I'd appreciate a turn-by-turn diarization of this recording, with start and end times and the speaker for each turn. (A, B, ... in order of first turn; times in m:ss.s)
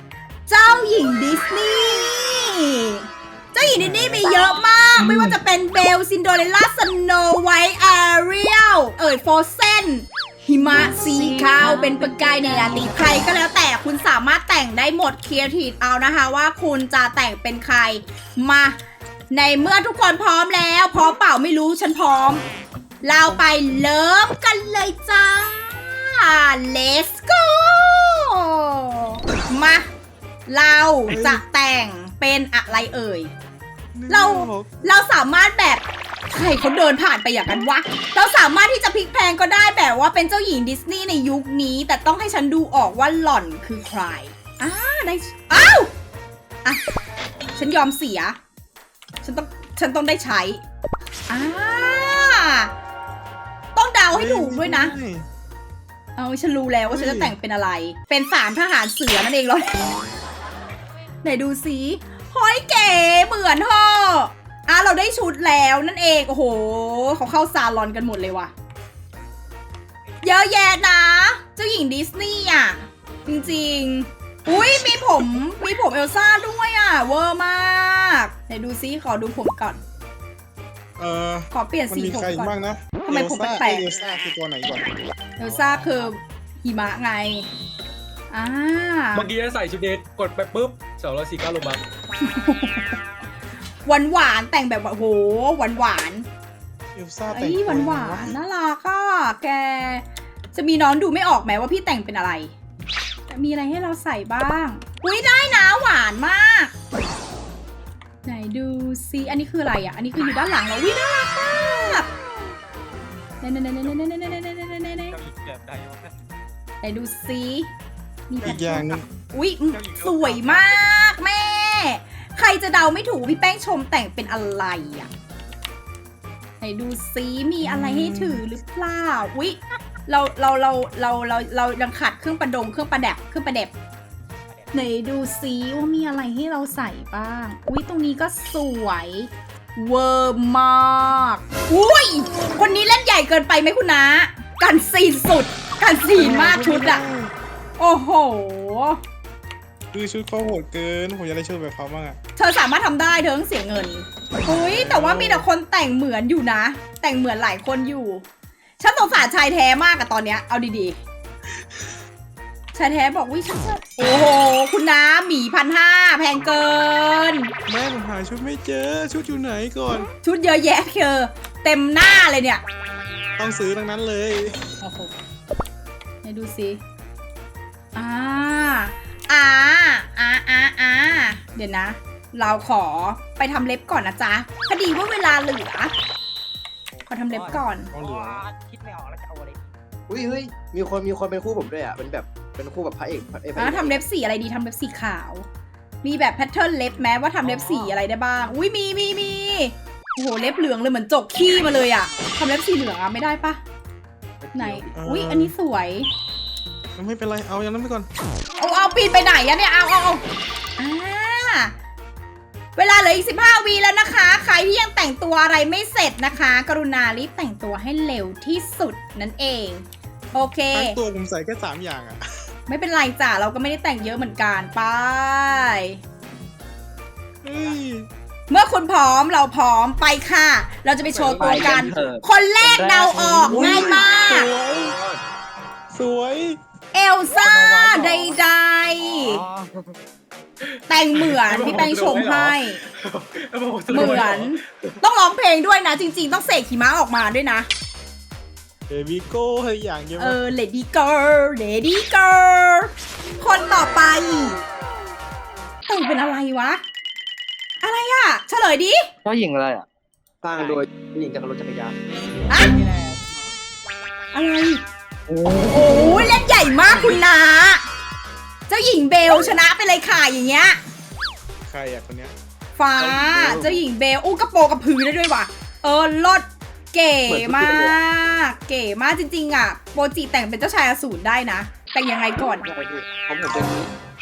0:00.5-0:18.8 A
0:03.7-0:04.3 B
0:05.0-0:05.4 B
0:19.3-0:22.4 A
0:23.0-0:29.9 A
0:30.5-0:33.3 A
0:31.1-0:31.4 B
0:34.0-0:34.7 B
0:34.1-0:45.9 A
0:47.6-0:48.4 A
0:49.2-0:50.6 A
0:51.3-0:52.7 A
0:53.8-0:55.0 A
0:54.1-0:55.3 B
0:56.2-0:59.9 A
0:56.9-0:57.4 B
1:01.2-1:08.5 A
1:10.2-1:19.8 A
1:21.0-1:24.9 B
1:21.5-1:23.9 A
1:25.4-1:27.5 A
1:28.3-1:29.3 A
1:29.1-1:31.8 C
1:32.2-1:33.0 A
1:33.8-1:36.3 A
1:37.0-1:38.4 B
1:37.3-1:42.5 A
1:43.3-1:46.7 A
1:48.2-1:52.1 A
1:53.4-1:55.2 A
1:55.3-1:56.1 D
1:56.8-1:57.7 A
1:58.3-2:05.1 A
1:58.4-1:59.1 B
2:00.0-2:00.7 D
2:06.6-2:13.7 A
2:07.6-2:08.4 B
2:14.7-2:27.0 A
2:26.2-2:27.3 B
2:27.8-2:29.0 A
2:29.9-2:32.2 B
2:32.4-2:38.2 A
2:34.5-2:35.5 B
2:38.8-2:41.0 A
2:42.7-2:47.5 A
2:47.7-2:50.1 B
2:50.2-2:52.6 A
2:53.4-2:54.7 B
2:54.8-2:55.1 A
2:56.2-2:56.8 A
2:58.0-3:05.9 A
3:07.0-3:09.8 D
3:07.1-3:07.9 A
3:07.9-3:08.4 B
3:10.1-3:14.0 E
3:13.6-3:15.4 A
3:16.0-3:23.6 A
3:17.6-3:18.0 D
3:24.4-3:24.9 E
3:24.6-3:26.1 A
3:25.0-3:25.5 B
3:27.0-3:28.1 B
3:28.6-3:30.2 A
3:30.8-3:31.8 A
3:32.8-3:41.0 A
3:40.7-3:42.2 B
3:42.7-3:46.0 A
3:47.4-3:48.1 B
3:48.5-3:54.5 A
3:51.1-3:52.1 C
3:51.4-3:53.0 E
3:51.4-3:53.7 D
3:53.4-3:55.0 B
3:54.7-3:55.2 C
3:55.9-3:56.6 B
3:56.9-3:59.4 A
3:57.5-3:58.4 D
3:59.2-4:00.0 D
4:00.6-4:04.9 C
4:00.9-4:02.8 A
4:03.9-4:07.7 A
4:08.9-4:10.4 B
4:10.2-4:14.6 A
4:15.9-4:16.8 A
4:17.8-4:19.1 A
4:19.2-4:19.9 D
4:20.4-4:22.0 E
4:20.5-4:20.8 D
4:24.3-4:24.8 A
4:25.3-4:26.2 D
4:25.7-4:27.8 A
4:26.9-4:27.2 C
4:28.7-4:30.8 A
4:29.3-4:29.6 E
4:31.7-4:32.4 B
4:32.8-4:42.7 A
4:33.0-4:33.8 E
4:37.3-4:38.0 E
4:42.5-4:43.9 E